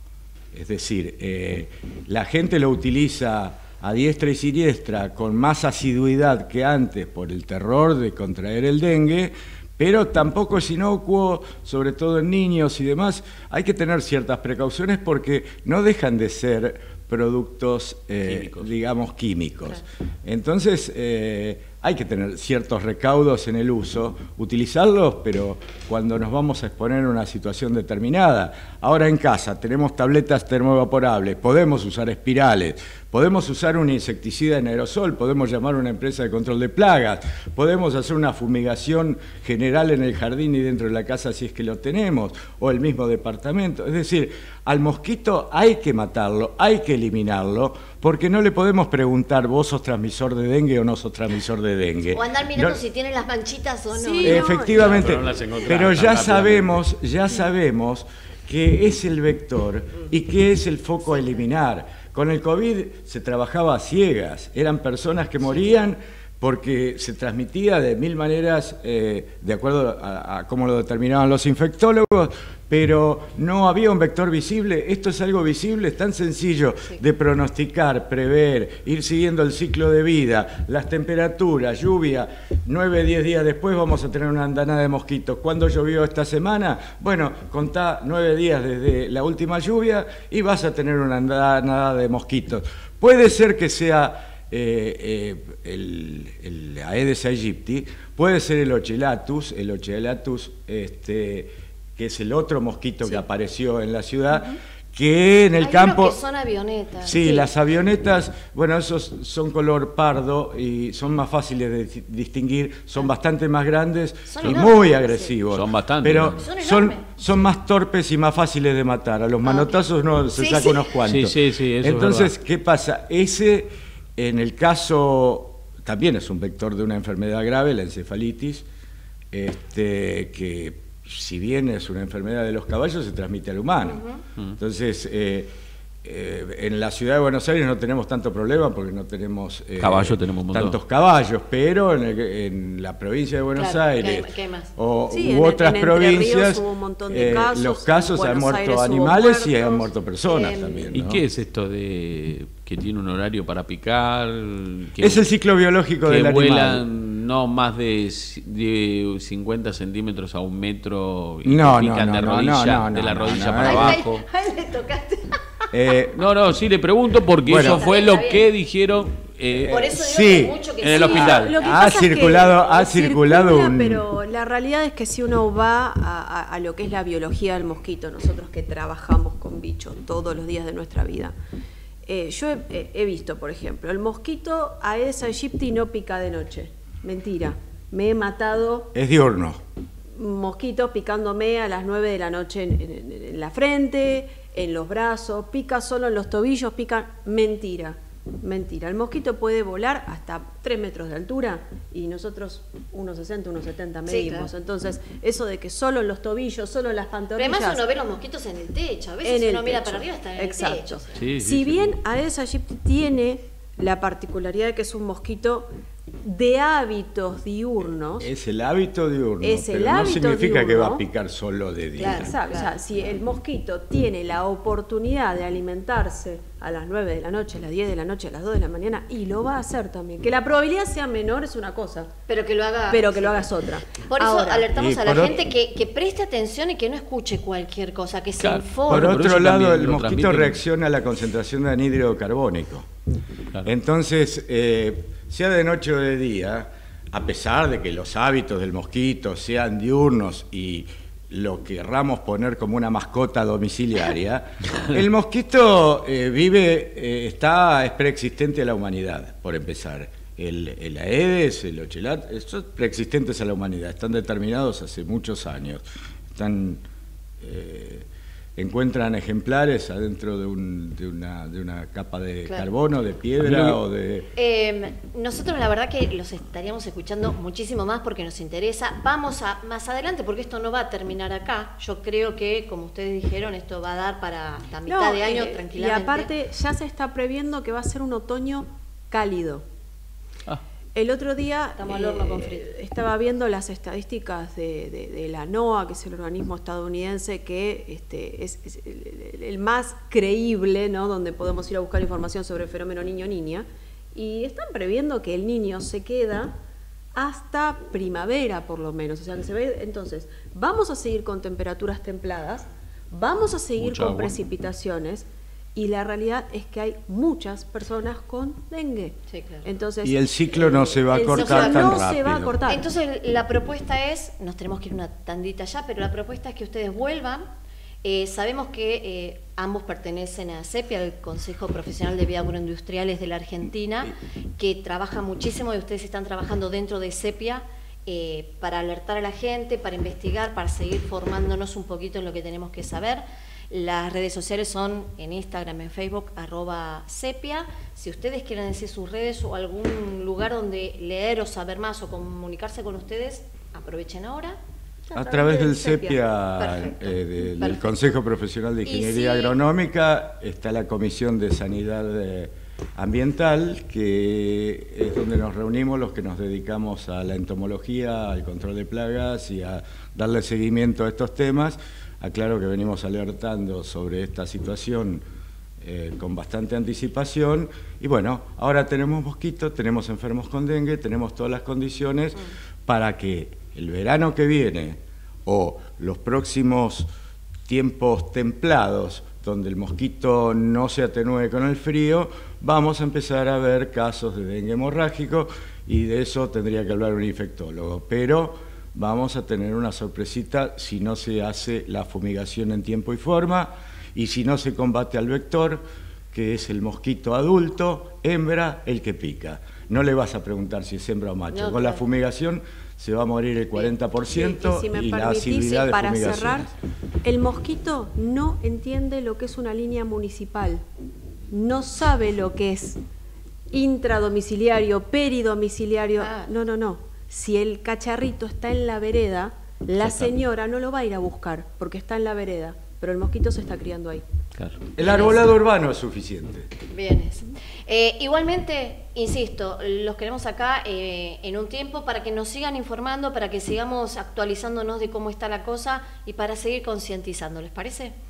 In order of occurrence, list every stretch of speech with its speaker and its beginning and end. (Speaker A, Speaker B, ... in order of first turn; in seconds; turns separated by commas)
Speaker A: 0.5-52.8, Speaker B: 18.2-18.7, Speaker C: 52.1-54.5, Speaker D: 53.9-55.1, Speaker A: 54.2-106.2, Speaker B: 54.7-56.8, Speaker C: 105.6-107.5, Speaker A: 107.0-128.6, Speaker C: 114.2-115.3, Speaker B: 115.5-116.4, Speaker C: 116.4-117.1, Speaker C: 119.4-119.7, Speaker C: 120.3-120.9, Speaker B: 121.0-122.3, Speaker A: 129.3-134.0, Speaker C: 133.8-134.2, Speaker A: 134.6-135.5, Speaker A: 136.0-151.2, Speaker B: 139.8-140.8, Speaker C: 143.5-144.7, Speaker D: 145.1-149.9, Speaker C: 150.2-150.9, Speaker B: 150.9-155.3, Speaker A: 155.0-156.8, Speaker B: 156.0-164.2, Speaker A: 161.4-164.0, Speaker C: 163.6-165.4, Speaker A: 165.7-166.2, Speaker B: 166.2-169.8, Speaker A: 167.4-167.9, Speaker C: 167.6-168.4, Speaker A: 169.6-170.6, Speaker C: 169.7-171.9, Speaker B: 170.8-171.5, Speaker D: 171.0-181.3, Speaker A: 171.1-174.0, Speaker D: 182.1-188.9, Speaker A: 188.9-189.6, Speaker D: 190.2-207.8, Speaker C: 204.1-204.5, Speaker C: 207.4-211.1, Speaker D: 209.2-215.7, Speaker B: 211.2-211.9, Speaker D: 216.2-218.2, Speaker A: 218.2-222.3, Speaker D: 219.4-221.0, Speaker C: 222.0-222.8, Speaker D: 222.0-232.1, Speaker C: 232.3-239.2, Speaker D: 232.9-234.7, Speaker A: 234.7-235.5, Speaker B: 238.4-240.6, Speaker A: 238.9-242.9, Speaker A: 243.6-265.8, Speaker A: 266.3-266.8, Speaker A: 267.4-268.1, Speaker A: 268.6-274.3, Speaker B: 273.4-273.8, Speaker C: 274.3-286.3, Speaker D: 284.9-289.6, Speaker D: 290.9-306.6, Speaker C: 291.8-292.7, Speaker D: 307.1-322.8, Speaker B: 313.8-314.4, Speaker C: 319.3-319.7, Speaker A: 320.0-322.6, Speaker C: 321.3-322.1, Speaker C: 322.6-327.5, Speaker C: 328.0-354.6, Speaker D: 355.1-356.2, Speaker A: 355.1-375.2, Speaker C: 356.6-358.2, Speaker C: 358.8-359.6, Speaker A: 375.8-387.1, Speaker A: 387.7-416.7, Speaker C: 411.5-412.0, Speaker D: 414.3-416.7, Speaker D: 417.2-420.8, Speaker D: 421.5-423.0, Speaker D: 423.7-434.2, Speaker C: 426.2-426.5, Speaker B: 430.0-430.3, Speaker A: 434.9-436.7, Speaker C: 435.0-435.4, Speaker C: 436.9-448.1